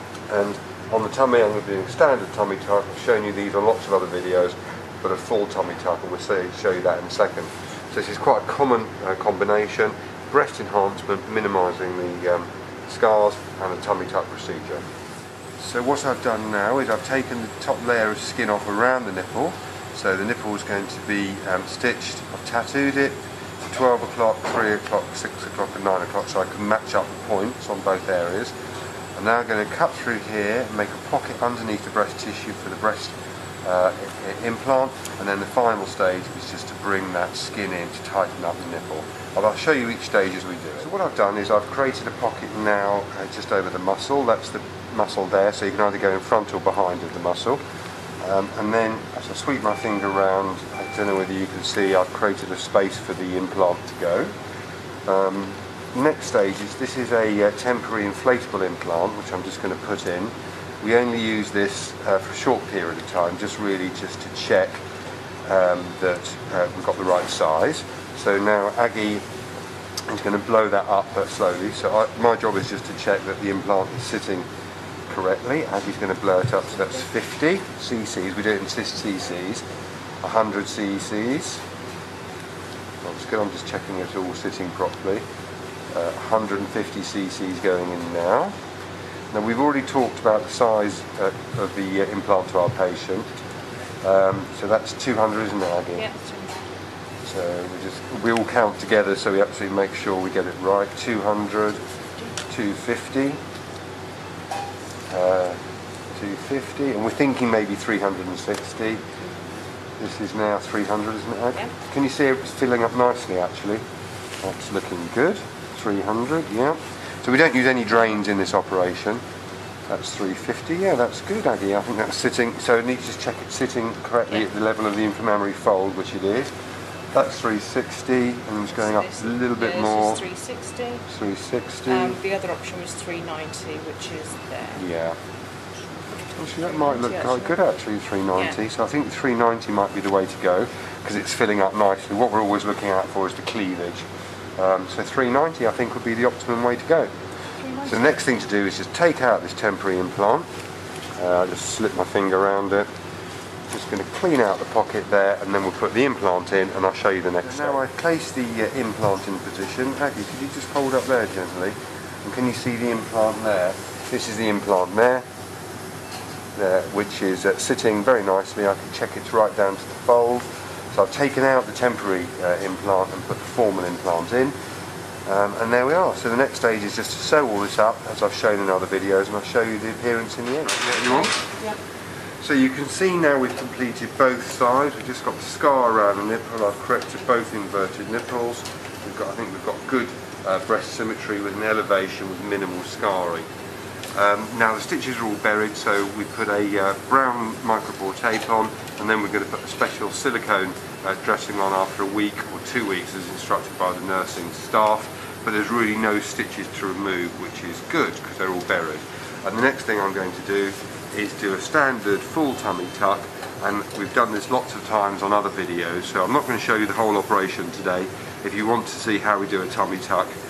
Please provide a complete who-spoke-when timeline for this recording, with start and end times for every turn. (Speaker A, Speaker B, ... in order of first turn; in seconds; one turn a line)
Speaker A: 0.3-14.8
Speaker A: 15.6-28.5
Speaker A: 29.2-47.6
Speaker A: 48.2-54.3
Speaker A: 55.1-64.8
Speaker A: 65.5-69.2
Speaker A: 70.1-74.5
Speaker A: 75.1-79.6
Speaker A: 80.2-81.6
Speaker A: 83.0-85.2
Speaker A: 85.9-88.5
Speaker A: 89.3-93.3
Speaker A: 94.0-96.1
Speaker B: 96.0-96.6
Speaker A: 97.2-101.8
Speaker A: 102.5-103.4
Speaker A: 105.1-105.6
Speaker A: 106.2-109.0
Speaker A: 110.0-113.8
Speaker A: 114.4-119.2
Speaker A: 119.9-126.5
Speaker A: 127.1-130.2
Speaker B: 128.8-131.0
Speaker A: 131.1-132.2
Speaker B: 131.9-134.8
Speaker A: 134.8-135.2
Speaker A: 136.3-144.1
Speaker B: 136.6-137.6
Speaker A: 144.6-147.1
Speaker B: 147.6-147.9
Speaker A: 147.8-150.5
Speaker A: 151.2-152.9
Speaker A: 153.7-165.2
Speaker A: 166.6-174.6
Speaker A: 175.3-181.4
Speaker A: 182.4-193.5
Speaker A: 194.1-220.3